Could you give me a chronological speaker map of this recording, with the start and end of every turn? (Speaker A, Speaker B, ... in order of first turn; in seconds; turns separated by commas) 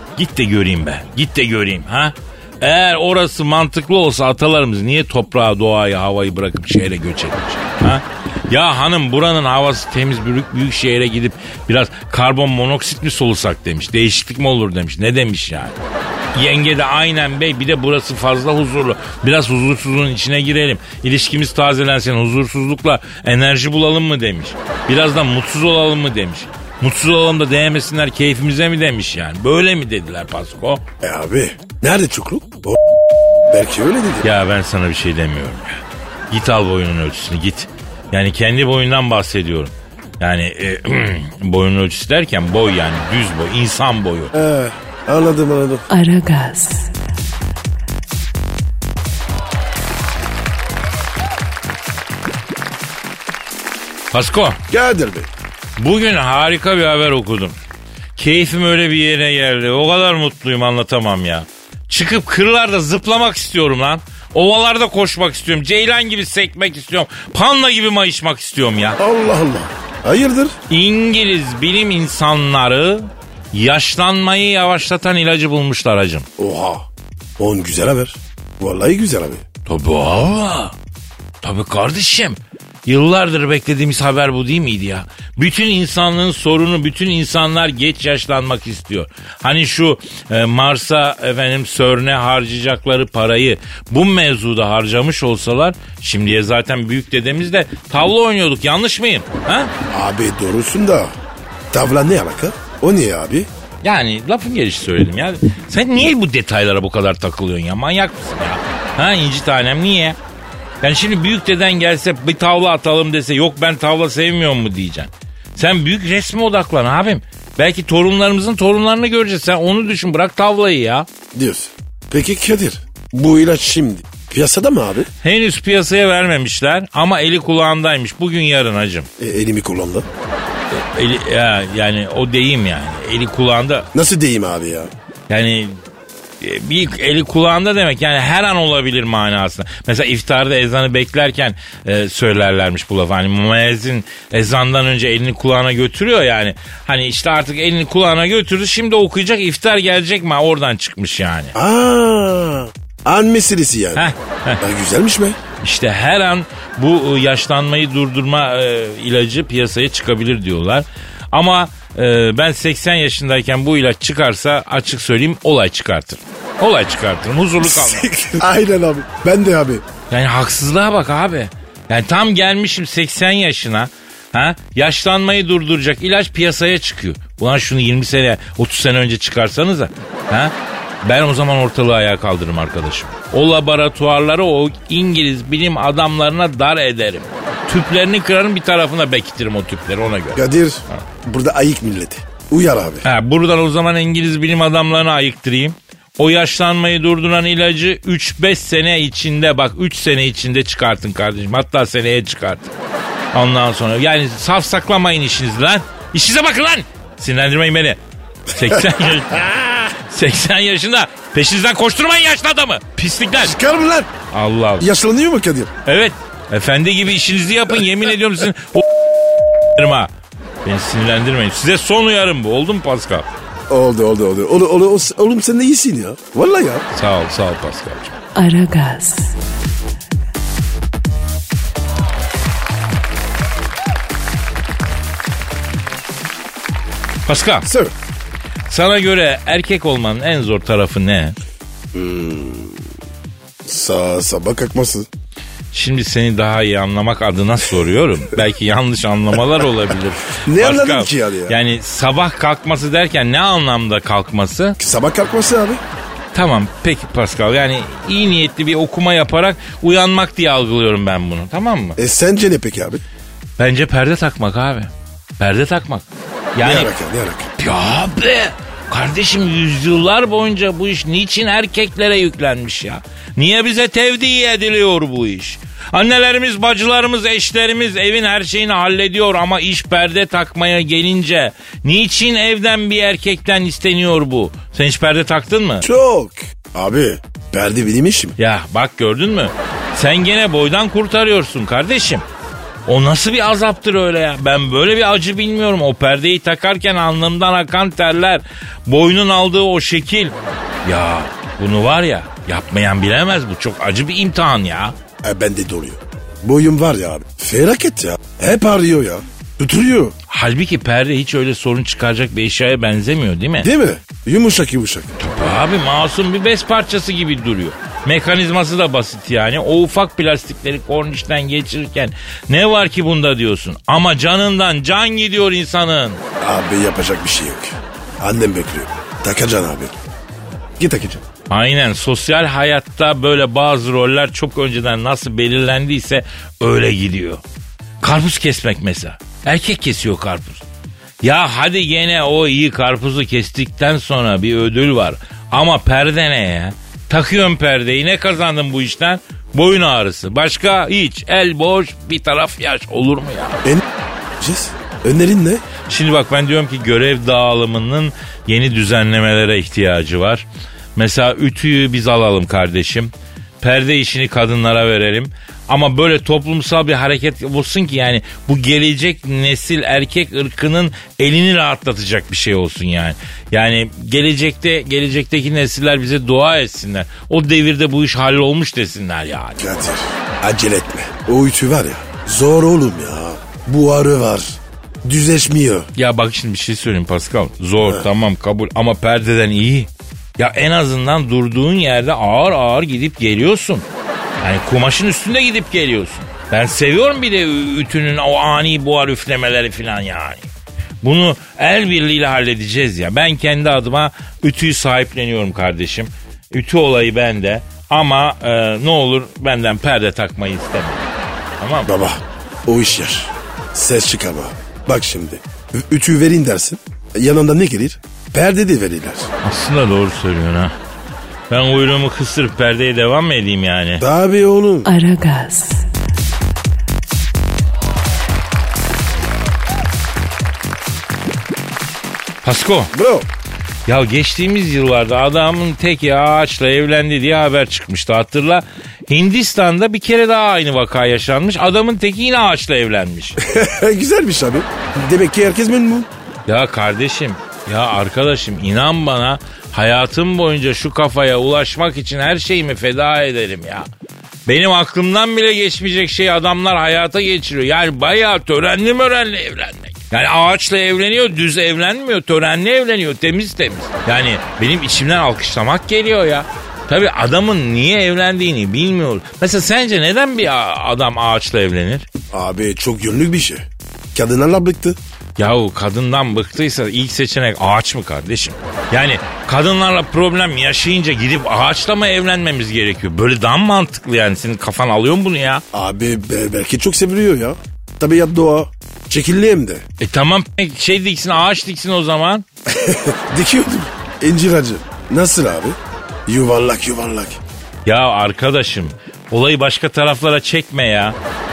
Speaker A: 0.2-15.7, Speaker A: 16.3-30.8, Speaker B: 31.0-32.8, Speaker B: 33.5-34.3, Speaker A: 34.2-35.8, Speaker A: 36.3-44.3, Speaker B: 44.3-45.9, Speaker C: 45.9-46.9, Speaker A: 54.1-54.6, Speaker B: 54.7-55.3, Speaker A: 55.8-57.5, Speaker A: 58.2-69.0, Speaker B: 69.0-70.5, Speaker A: 70.7-76.2, Speaker B: 76.4-76.9, Speaker B: 77.4-79.4, Speaker A: 79.7-80.7, Speaker A: 81.4-99.7, Speaker B: 99.9-101.1, Speaker B: 101.7-103.5, Speaker A: 103.8-110.2, Speaker A: 110.8-121.1, Speaker B: 121.3-125.1, Speaker A: 125.2-129.1, Speaker B: 129.2-130.1, Speaker A: 130.7-133.9, Speaker B: 133.9-134.9, Speaker A: 135.3-135.8, Speaker A: 136.4-151.5, Speaker B: 151.6-155.4, Speaker A: 153.9-154.6, Speaker A: 155.6-168.1, Speaker B: 167.6-169.8, Speaker A: 170.1-191.0, Speaker B: 190.3-193.0, Speaker A: 193.0-202.7, Speaker A: 203.3-208.0, Speaker A: 208.5-213.6, Speaker B: 213.4-214.1, Speaker A: 214.3-214.9, Speaker B: 214.8-215.7, Speaker A: 215.8-218.8, Speaker A: 219.7-220.1, Speaker A: 220.6-223.2, Speaker B: 223.7-226.8, Speaker A: 226.9-228.1, Speaker C: 228.3-229.4, Speaker A: 237.3-237.7, Speaker B: 237.6-237.9, Speaker A: 238.7-241.3, Speaker B: 241.9-242.8, Speaker B: 243.7-245.1, Speaker A: 245.7-254.8, Speaker B: 250.4-251.5, Speaker B: 254.8-255.8, Speaker A: 256.3-262.0, Speaker B: 262.0-263.0, Speaker A: 263.6-266.9, Speaker B: 266.6-267.5, Speaker A: 267.6-285.8, Speaker B: 285.8-288.4, Speaker A: 288.4-292.2, Speaker A: 292.9-304.9, Speaker B: 305.2-310.1, Speaker A: 310.3-313.7, Speaker B: 313.6-315.2, Speaker A: 315.2-326.2, Speaker B: 326.4-329.9, Speaker B: 330.8-331.2, Speaker A: 331.5-337.4, Speaker A: 338.0-340.6, Speaker A: 341.2-353.6, Speaker B: 354.4-355.6, Speaker A: 355.9-379.6, Speaker B: 379.6-385.9, Speaker A: 385.9-393.9, Speaker A: 394.4-400.5, Speaker A: 401.0-411.9, Speaker B: 411.9-419.3, Speaker A: 419.4-420.7, Speaker A: 421.5-424.0, Speaker B: 424.0-424.9, Speaker C: 424.8-425.9, Speaker A: 432.4-432.9, Speaker B: 432.9-433.2, Speaker A: 433.9-443.4, Speaker B: 443.4-446.1, Speaker A: 446.5-453.9, Speaker A: 454.4-472.1, Speaker B: 472.3-475.0, Speaker A: 475.4-485.6, Speaker B: 485.7-489.8, Speaker A: 490.0-492.4, Speaker B: 492.7-497.4, Speaker A: 497.9-501.2